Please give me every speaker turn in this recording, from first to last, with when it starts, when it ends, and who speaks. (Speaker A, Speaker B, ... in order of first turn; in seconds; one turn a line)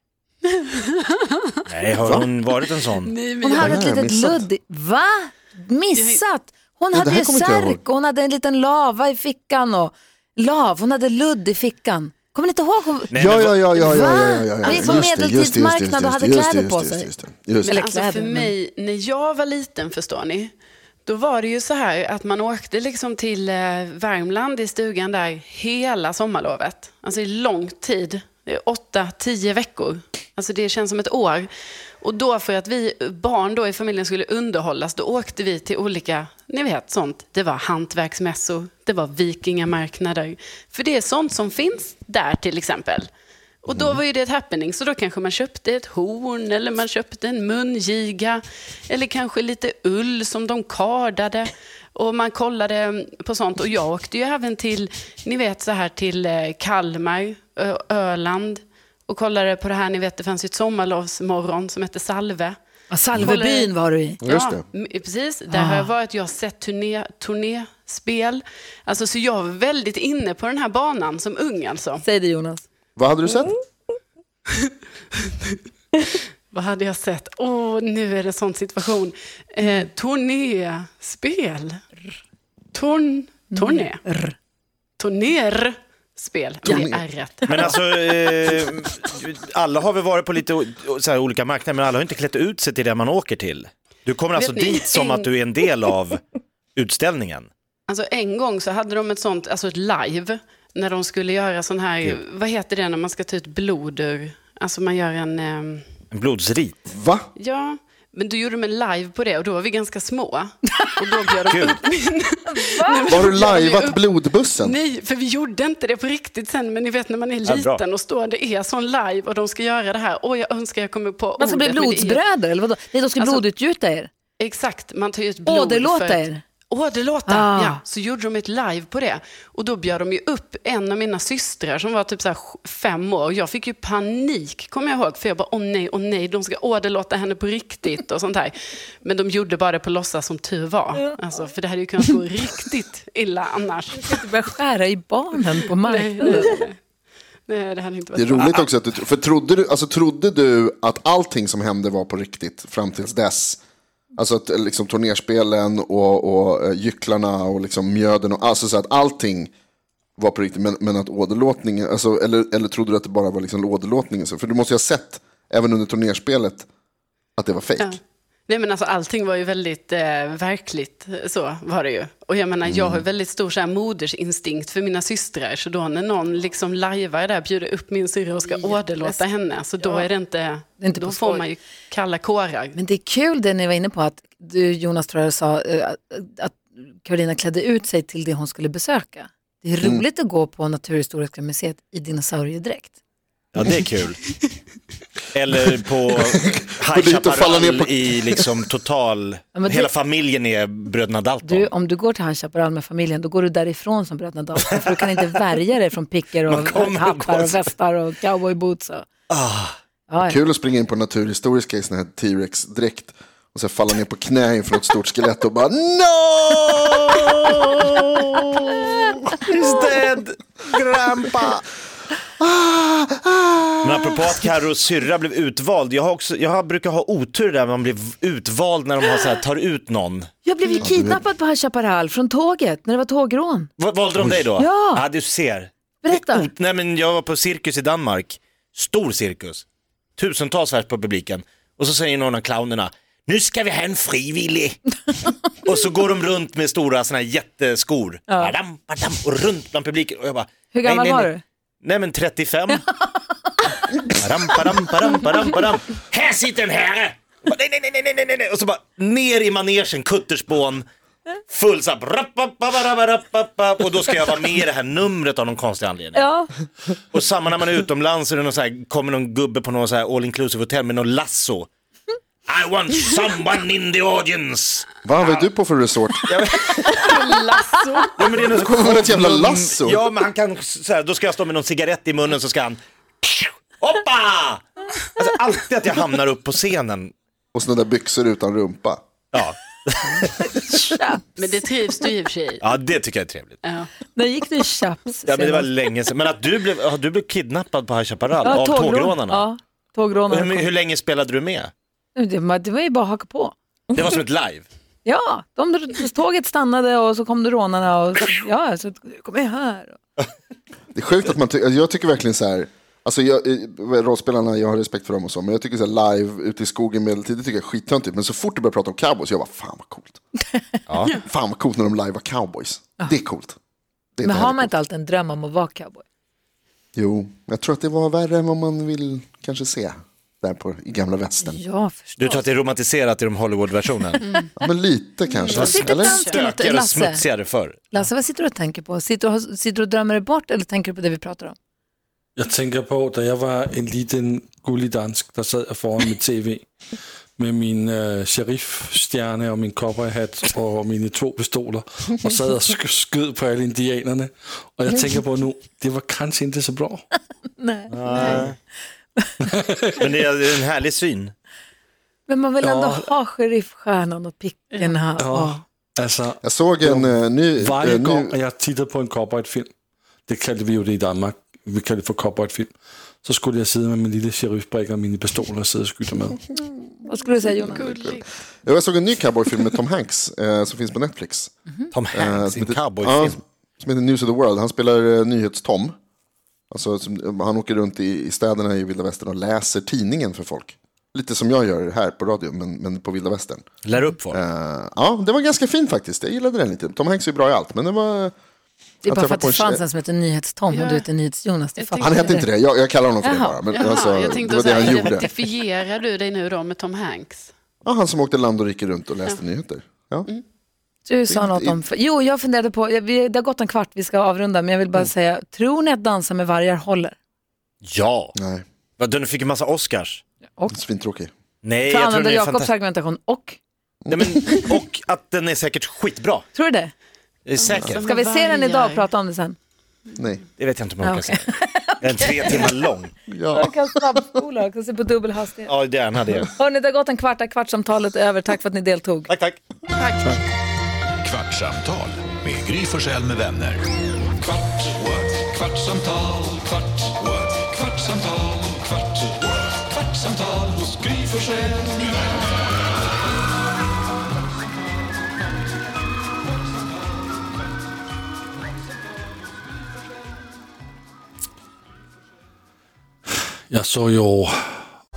Speaker A: 0.6-3.8
Speaker B: 1.7-3.1
Speaker C: 3.4-17.1
Speaker D: 3.5-4.5
Speaker A: 5.9-6.2
Speaker D: 6.9-7.8
Speaker B: 13.1-13.9
Speaker D: 13.1-17.8
Speaker A: 14.7-15.0
Speaker C: 17.6-18.5
Speaker A: 17.6-20.5
Speaker A: 21.0-31.5
Speaker A: 32.0-43.1
Speaker A: 43.6-62.6
Speaker C: 62.9-64.2
Speaker A: 63.1-63.7
Speaker D: 64.2-64.6
Speaker A: 64.2-72.0
Speaker C: 65.5-65.9
Speaker C: 72.0-72.7
Speaker D: 73.0-73.6
Speaker A: 74.5-81.8
Speaker A: 82.7-84.0
Speaker C: 83.5-84.3
Speaker A: 85.0-88.2
Speaker D: 86.6-87.0
Speaker B: 87.5-96.2
Speaker A: 94.3-95.3
Speaker B: 96.7-97.5
Speaker A: 97.9-105.8
Speaker B: 106.1-106.8
Speaker D: 106.9-107.3
Speaker A: 107.3-122.2
Speaker B: 111.5-111.8
Speaker C: 112.6-113.0
Speaker D: 113.1-114.7
Speaker B: 117.4-117.8
Speaker C: 121.4-124.1
Speaker A: 123.2-123.4
Speaker A: 124.4-144.2
Speaker C: 125.5-126.4
Speaker C: 127.2-127.8
Speaker C: 144.0-146.6
Speaker A: 145.6-146.8
Speaker A: 147.5-148.7
Speaker D: 148.1-153.6
Speaker D: 154.2-159.5
Speaker D: 160.2-166.7
Speaker D: 167.4-168.0
Speaker A: 167.8-182.8
Speaker D: 172.7-173.0
Speaker C: 178.4-179.2
Speaker C: 179.8-180.1
Speaker C: 180.8-181.5
Speaker C: 182.7-192.9
Speaker B: 193.5-194.2
Speaker B: 195.3-201.7
Speaker D: 196.5-198.3
Speaker C: 199.5-199.9
Speaker C: 201.4-209.1
Speaker B: 206.5-207.6
Speaker B: 209.3-209.8
Speaker C: 210.1-210.4
Speaker D: 210.2-217.0
Speaker B: 217.1-221.6
Speaker D: 222.4-224.2
Speaker B: 223.8-230.3
Speaker C: 230.4-233.7
Speaker D: 230.8-231.2
Speaker B: 233.8-239.6
Speaker D: 234.2-234.4
Speaker C: 234.6-235.0
Speaker C: 236.0-236.5
Speaker B: 240.2-244.8
Speaker B: 245.6-251.3
Speaker C: 248.3-248.5
Speaker C: 250.7-251.4
Speaker B: 251.8-252.8
Speaker C: 252.7-253.6
Speaker B: 254.1-260.8
Speaker B: 261.5-266.2
Speaker C: 266.1-266.5
Speaker B: 267.1-271.7
Speaker B: 272.5-274.9
Speaker D: 275.0-276.3
Speaker B: 276.2-277.2
Speaker A: 276.9-278.4
Speaker B: 278.2-284.6
Speaker D: 278.6-280.0
Speaker B: 285.1-287.1
Speaker D: 287.5-289.0
Speaker B: 289.3-290.3
Speaker C: 290.4-291.5
Speaker A: 291.4-292.6
Speaker B: 292.6-293.6
Speaker A: 293.6-293.9
Speaker C: 294.1-295.7
Speaker B: 295.2-299.4
Speaker C: 298.4-300.7
Speaker B: 300.3-301.7
Speaker C: 302.1-303.5
Speaker B: 303.9-304.7
Speaker C: 305.0-310.0
Speaker D: 310.9-320.2
Speaker B: 320.9-321.2
Speaker D: 321.2-323.6
Speaker D: 324.2-324.7
Speaker C: 324.2-326.0
Speaker D: 326.9-331.6
Speaker C: 331.4-332.4
Speaker B: 332.2-334.2
Speaker D: 334.6-336.2
Speaker A: 335.3-336.4
Speaker C: 335.5-337.2
Speaker B: 335.5-338.0
Speaker C: 337.9-341.6
Speaker E: 342.4-346.6
Speaker E: 347.4-357.0
Speaker C: 357.6-358.5
Speaker B: 357.9-358.6
Speaker A: 358.2-358.5
Speaker E: 359.4-360.1
Speaker B: 360.0-361.3
Speaker C: 362.3-365.6
Speaker E: 362.6-363.1
Speaker E: 365.2-369.7
Speaker D: 366.4-368.4
Speaker E: 370.3-376.4
Speaker C: 376.6-378.0
Speaker A: 377.3-378.2
Speaker D: 377.9-381.5
Speaker B: 381.9-383.4
Speaker D: 382.1-385.9
Speaker D: 386.7-393.6
Speaker B: 393.8-394.4
Speaker D: 394.3-398.3
Speaker D: 399.0-399.8
Speaker C: 399.0-402.5
Speaker A: 400.7-401.1
Speaker A: 401.8-402.3
Speaker D: 402.0-405.3
Speaker C: 403.2-403.6
Speaker A: 403.7-407.5
Speaker D: 407.8-410.3
Speaker C: 411.1-417.2
Speaker D: 411.3-411.8
Speaker B: 417.8-418.3
Speaker D: 418.4-418.6
Speaker B: 419.0-420.2
Speaker D: 420.7-421.3
Speaker B: 421.6-422.7
Speaker C: 421.9-423.6
Speaker D: 424.0-424.6
Speaker B: 424.1-426.4
Speaker C: 426.5-426.9
Speaker B: 427.4-428.0
Speaker A: 427.6-429.1
Speaker C: 427.9-429.6
Speaker D: 430.1-430.4
Speaker B: 430.6-431.5
Speaker C: 431.0-432.7
Speaker B: 432.0-433.1
Speaker D: 433.3-434.2
Speaker C: 433.5-435.7
Speaker B: 435.7-436.5
Speaker C: 436.5-439.3
Speaker B: 439.3-439.6
Speaker A: 439.9-440.4
Speaker F: 441.2-443.8
Speaker E: 444.4-449.3
Speaker F: 445.0-446.1
Speaker E: 450.0-452.2
Speaker E: 463.7-464.5